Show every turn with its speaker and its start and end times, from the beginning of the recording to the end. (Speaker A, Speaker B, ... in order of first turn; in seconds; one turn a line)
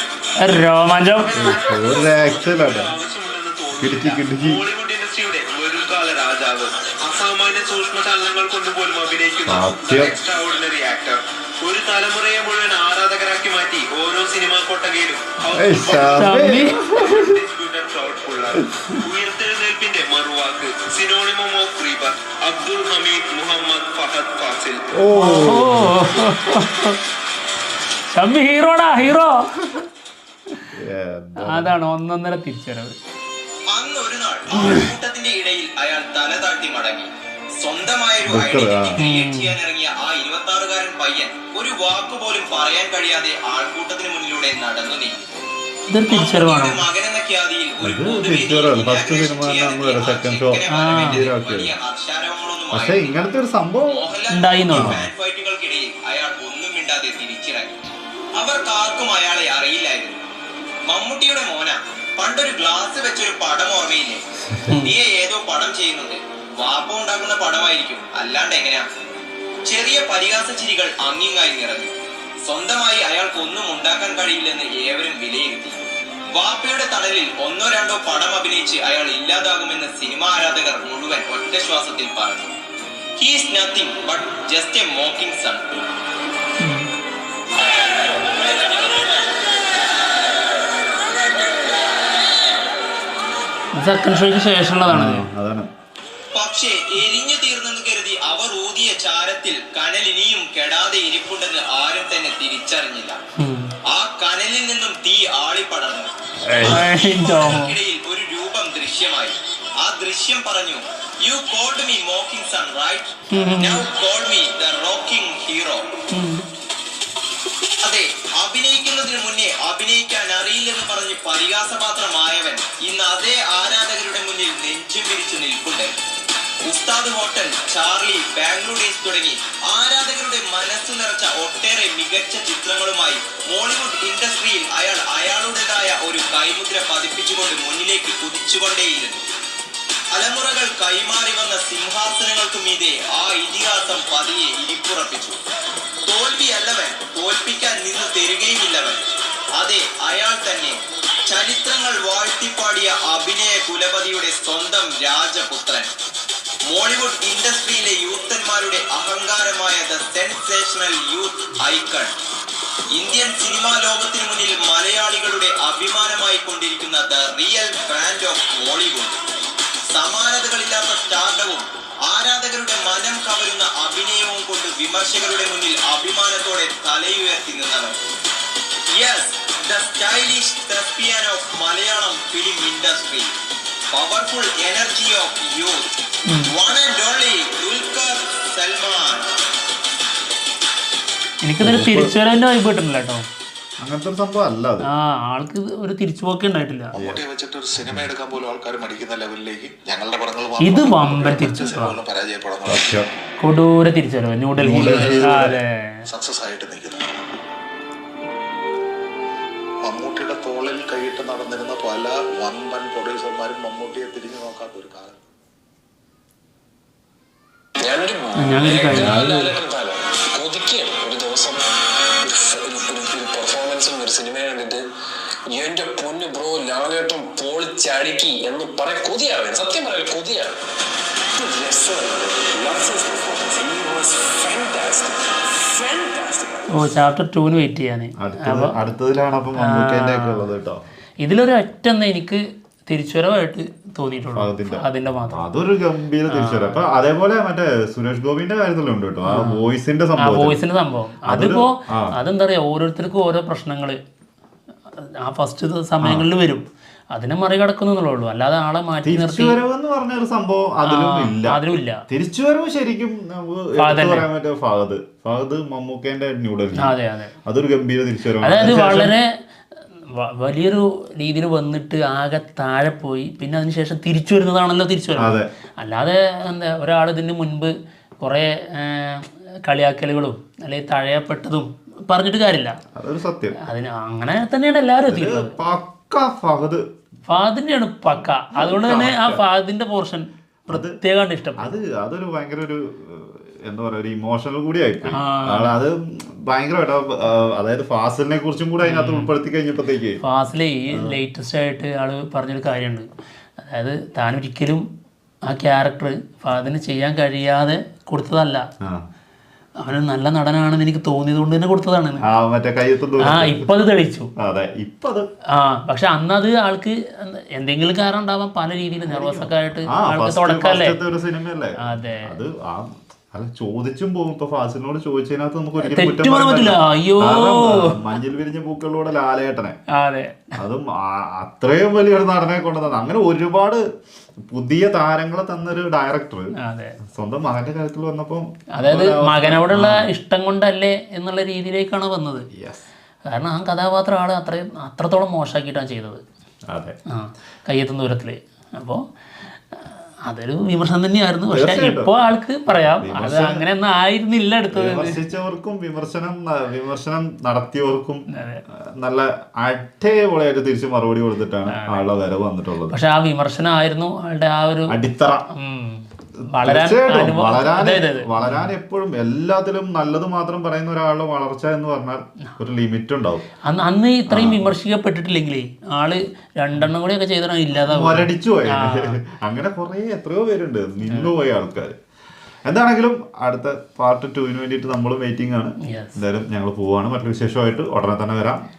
Speaker A: 0.4-1.4
Speaker B: 1.2-24.8
Speaker C: 1.4-2.9
Speaker C: 3.8-4.6
Speaker C: 9.5-10.1
Speaker C: 15.5-17.4
Speaker A: 16.1-16.8
Speaker C: 24.9-26.0
Speaker A: 25.1-27.0
Speaker A: 28.1-29.5
Speaker C: 30.7-31.7
Speaker A: 31.4-33.0
Speaker D: 33.7-45.2
Speaker C: 38.3-39.0
Speaker A: 39.0-39.5
Speaker A: 45.9-46.8
Speaker D: 46.1-53.1
Speaker C: 47.8-51.7
Speaker A: 50.7-51.3
Speaker C: 52.7-54.1
Speaker D: 53.9-57.8
Speaker A: 54.3-55.0
Speaker C: 54.7-55.0
Speaker D: 58.4-60.2
Speaker D: 60.9-64.2
Speaker A: 64.7-64.9
Speaker D: 64.8-68.8
Speaker D: 69.7-71.9
Speaker D: 72.5-82.5
Speaker D: 83.2-85.6
Speaker A: 86.6-86.9
Speaker A: 93.8-95.2
Speaker C: 94.9-95.7
Speaker D: 96.3-103.2
Speaker A: 103.4-103.7
Speaker D: 103.9-106.1
Speaker C: 106.4-106.8
Speaker A: 106.5-107.7
Speaker D: 106.7-115.9
Speaker A: 113.3-113.8
Speaker A: 116.1-116.4
Speaker D: 117.8-125.9
Speaker D: 126.6-139.2
Speaker D: 140.1-145.4
Speaker D: 146.1-149.0
Speaker D: 149.6-155.9
Speaker D: 156.7-162.1
Speaker D: 162.9-169.2
Speaker D: 169.9-177.9
Speaker D: 179.0-183.3
Speaker D: 183.9-185.9
Speaker D: 186.5-189.2
Speaker A: 191.4-193.2
Speaker C: 191.6-192.1
Speaker C: 193.8-194.9
Speaker A: 194.9-196.9
Speaker C: 196.9-197.2
Speaker E: 196.9-203.0
Speaker A: 200.6-202.0
Speaker C: 202.7-203.1
Speaker A: 203.4-205.7
Speaker C: 204.6-205.6
Speaker E: 204.8-205.4
Speaker E: 206.1-207.1
Speaker E: 209.8-215.2
Speaker F: 217.8-221.6
Speaker A: 218.4-219.4
Speaker C: 218.9-219.3
Speaker F: 222.2-224.8
Speaker F: 225.5-230.6
Speaker F: 231.3-236.9
Speaker A: 236.7-238.8
Speaker C: 238.2-240.8
Speaker A: 239.6-240.5
Speaker A: 241.2-245.5
Speaker C: 244.3-250.6
Speaker A: 246.3-246.8
Speaker A: 249.2-249.6
Speaker A: 250.2-254.0
Speaker C: 251.2-252.1
Speaker A: 255.2-259.6
Speaker C: 256.0-256.3
Speaker C: 259.0-269.1
Speaker A: 260.9-262.0
Speaker A: 263.8-264.2
Speaker A: 266.8-267.3
Speaker A: 268.4-269.3
Speaker A: 270.2-282.8
Speaker C: 275.2-275.5
Speaker C: 282.9-283.6
Speaker A: 283.6-285.5
Speaker C: 285.1-286.8
Speaker A: 287.3-291.7
Speaker C: 288.5-289.4
Speaker C: 290.7-290.9
Speaker C: 291.6-300.2
Speaker A: 295.1-295.8
Speaker A: 298.8-299.3
Speaker A: 300.2-303.1
Speaker C: 300.9-301.2
Speaker A: 303.6-304.8
Speaker A: 305.5-308.6
Speaker A: 309.8-312.2
Speaker C: 312.2-313.7
Speaker A: 313.2-314.3
Speaker C: 314.4-315.3
Speaker A: 315.6-321.0
Speaker C: 319.0-329.8
Speaker A: 321.8-322.2
Speaker A: 325.8-328.0
Speaker A: 329.9-330.5
Speaker C: 330.6-333.8
Speaker C: 334.5-336.5
Speaker A: 336.6-336.9
Speaker C: 337.1-340.0
Speaker A: 338.8-342.5
Speaker C: 342.5-342.9
Speaker A: 343.3-346.2
Speaker C: 346.7-346.9
Speaker A: 347.1-349.0
Speaker A: 350.3-355.2
Speaker C: 351.5-352.1
Speaker C: 352.8-353.6
Speaker C: 354.7-358.2
Speaker A: 358.3-358.6
Speaker C: 358.8-362.9
Speaker A: 361.7-362.1
Speaker A: 362.9-364.9
Speaker C: 364.9-365.4
Speaker A: 365.5-368.7
Speaker C: 366.6-373.4
Speaker A: 373.7-379.2
Speaker C: 374.3-374.7
Speaker C: 377.8-382.0
Speaker A: 381.1-381.3
Speaker C: 382.6-388.6
Speaker A: 385.9-386.2